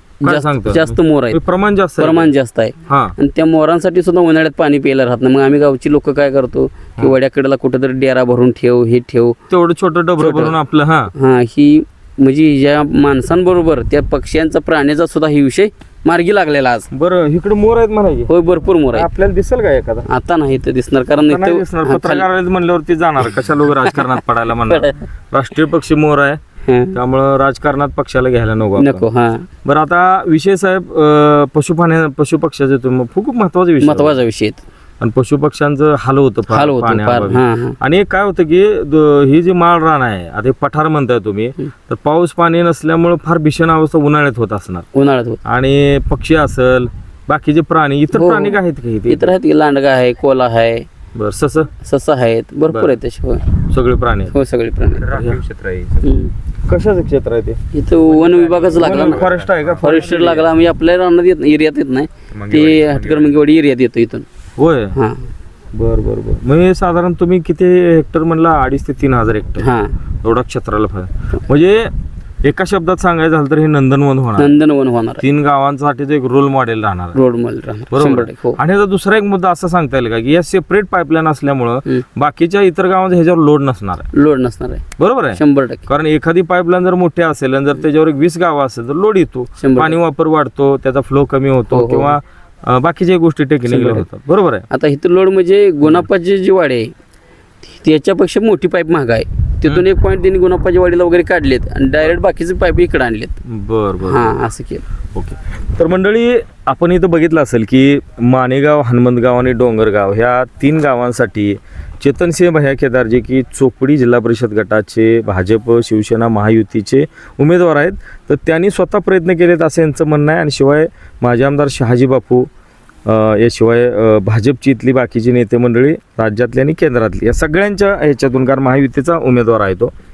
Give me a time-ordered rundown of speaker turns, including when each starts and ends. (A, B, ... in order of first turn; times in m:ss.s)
0:00.2-0:01.4 A
0:00.2-0:02.3 B
0:02.0-0:09.4 A
0:02.9-0:03.1 B
0:09.5-0:11.1 B
0:10.2-0:10.5 A
0:11.1-0:16.8 A
0:16.9-0:18.3 B
0:18.3-0:19.1 A
0:18.9-0:20.1 B
0:20.1-0:22.3 A
0:21.3-0:26.4 B
0:23.9-0:25.0 A
0:26.7-0:27.0 A
0:26.9-0:29.0 B
0:28.8-0:29.5 A
0:29.6-0:34.2 B
0:33.8-0:34.6 A
0:35.0-0:44.8 B
0:36.5-0:37.8 A
0:44.9-0:45.4 A
0:45.4-0:49.3 B
0:48.1-0:50.9 A
0:51.1-0:51.7 B
0:51.8-0:53.4 A
0:53.7-0:54.3 B
0:54.3-0:55.1 A
0:55.0-0:56.1 C
0:55.1-0:55.4 B
0:56.0-0:56.3 A
0:56.7-0:57.6 B
0:57.7-0:59.3 A
0:58.2-1:00.0 C
0:58.4-1:00.5 B
0:59.8-1:04.2 A
1:02.3-1:03.4 C
1:04.6-1:04.9 B
1:04.9-1:05.3 A
1:05.7-1:09.7 B
1:09.6-1:09.9 A
1:10.2-1:11.9 B
1:12.4-1:14.5 B
1:14.4-1:15.2 A
1:15.2-1:17.2 B
1:17.1-1:18.6 A
1:17.9-1:24.1 B
1:24.1-1:25.8 A
1:25.0-1:34.6 B
1:29.6-1:30.0 A
1:31.7-1:32.2 A
1:33.7-1:34.0 A
1:34.7-1:36.9 A
1:37.6-1:43.3 A
1:43.5-1:44.3 B
1:44.0-1:44.8 A
1:45.1-2:02.5 B
2:03.0-2:09.9 B